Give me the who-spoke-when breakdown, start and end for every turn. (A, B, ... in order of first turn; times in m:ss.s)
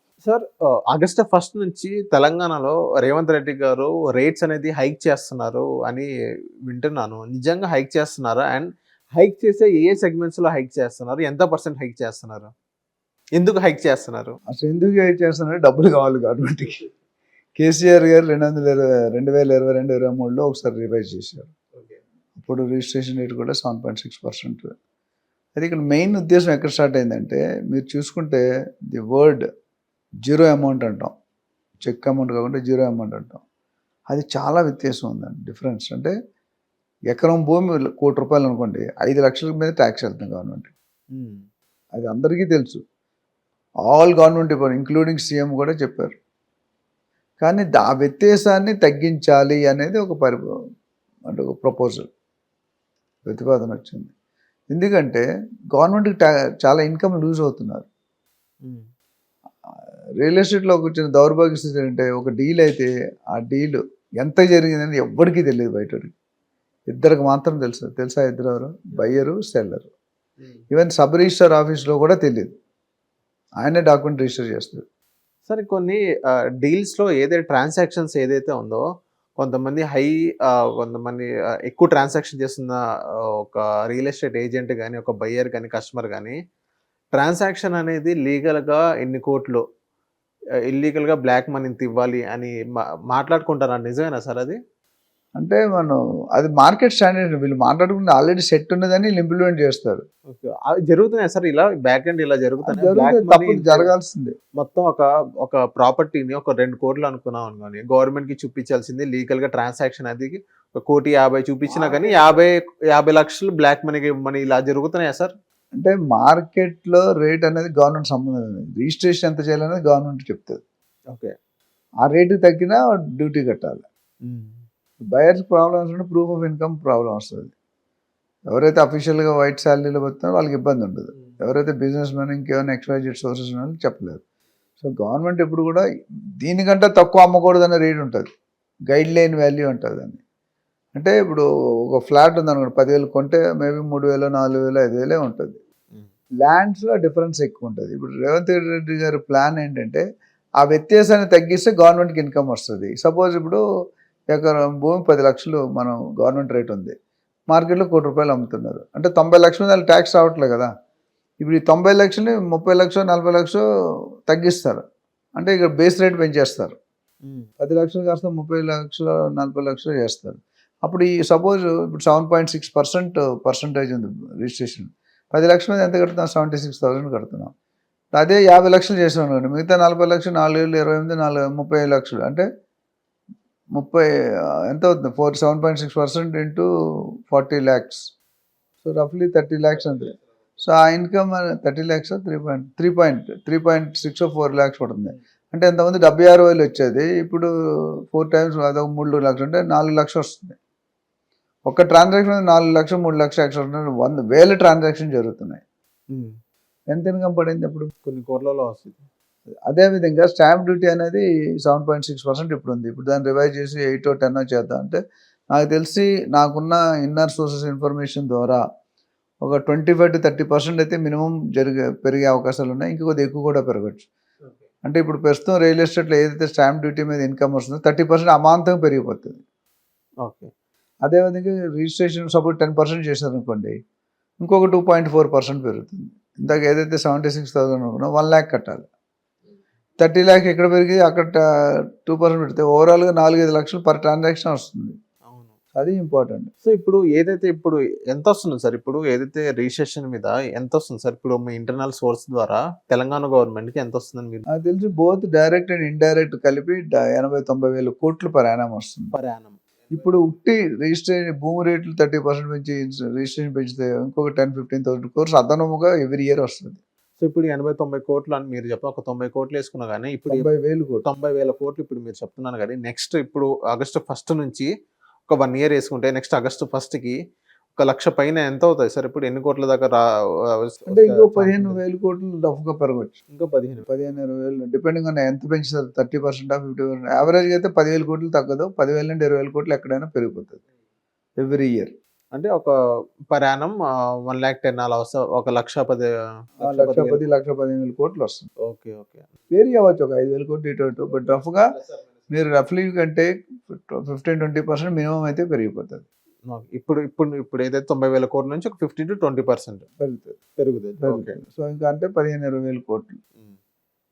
0:00.2-0:06.1 A
0:06.7-0:12.5 A
0:13.4-0:14.4 A
0:14.5-0:16.8 B
0:17.6-0:21.5 B
0:22.4-0:24.7 B
0:25.5-0:29.4 B
0:30.2-0:31.1 B
0:31.8-0:33.4 B
0:34.1-0:36.1 B
0:37.1-0:40.7 B
0:41.1-0:41.4 A
0:41.9-0:42.8 B
0:43.9-0:46.1 B
0:47.4-0:50.5 B
0:51.3-0:52.1 B
0:53.2-0:54.1 B
0:54.7-0:57.8 B
1:00.2-1:06.1 B
1:06.9-1:09.9 B
1:10.7-1:12.6 B
1:13.6-1:14.8 B
1:15.5-1:16.0 A
1:16.6-1:18.8 A
1:19.4-1:22.8 A
1:23.4-1:26.4 A
1:27.2-1:29.6 A
1:30.7-1:32.6 A
1:33.1-1:34.6 A
1:35.4-1:40.0 B
1:40.3-1:43.9 A
1:42.6-1:44.3 B
1:44.6-1:55.3 A
1:51.7-1:52.4 B
1:55.8-2:00.6 B
2:02.0-2:03.8 B
2:04.3-2:04.5 A
2:05.0-2:07.5 B
2:08.5-2:14.2 B
2:14.8-2:15.8 B
2:16.4-2:18.3 B
2:18.9-2:20.2 B
2:20.9-2:25.6 B
2:26.4-2:30.0 B
2:30.6-2:33.6 B
2:34.3-2:36.9 B
2:37.5-2:40.7 B
2:41.4-2:43.6 B
2:44.3-2:44.8 B
2:45.4-2:46.8 B
2:47.2-2:47.5 A
2:47.6-2:57.5 B
2:58.1-3:02.4 B
3:03.7-3:04.0 B
3:04.7-3:06.6 B
3:07.3-3:08.1 B
3:08.8-3:17.5 B
3:18.1-3:20.6 B
3:21.6-3:25.6 B
3:26.9-3:27.9 B
3:28.0-3:29.0 A
3:29.7-3:35.0 B
3:35.5-3:38.6 B
3:39.4-3:44.0 B
3:44.8-3:49.4 B
3:50.2-3:50.5 A
3:51.0-3:53.7 B
3:54.4-3:58.9 B
4:00.0-4:01.4 B
4:02.0-4:05.0 B
4:05.2-4:05.5 A
4:05.7-4:06.5 B
4:06.6-4:14.5 A
4:14.5-4:19.1 B
4:19.1-4:20.2 A
4:19.9-4:26.8 B
4:27.2-4:30.5 A
4:30.3-4:31.0 B
4:31.0-4:34.7 A
4:35.3-4:37.2 A
4:37.8-4:40.0 A
4:40.6-4:41.8 A
4:40.9-4:43.2 B
4:43.3-4:43.9 A
4:43.8-4:50.6 B
4:51.4-4:51.9 B
4:52.3-4:52.7 A
4:53.3-4:53.8 A
4:54.3-4:57.3 A
4:56.6-4:58.4 B
4:58.7-4:59.3 A
4:59.5-5:01.7 B
5:02.3-5:06.0 B
5:06.5-5:09.8 A
5:10.0-5:10.4 B
5:10.6-5:11.4 A
5:11.0-5:13.2 B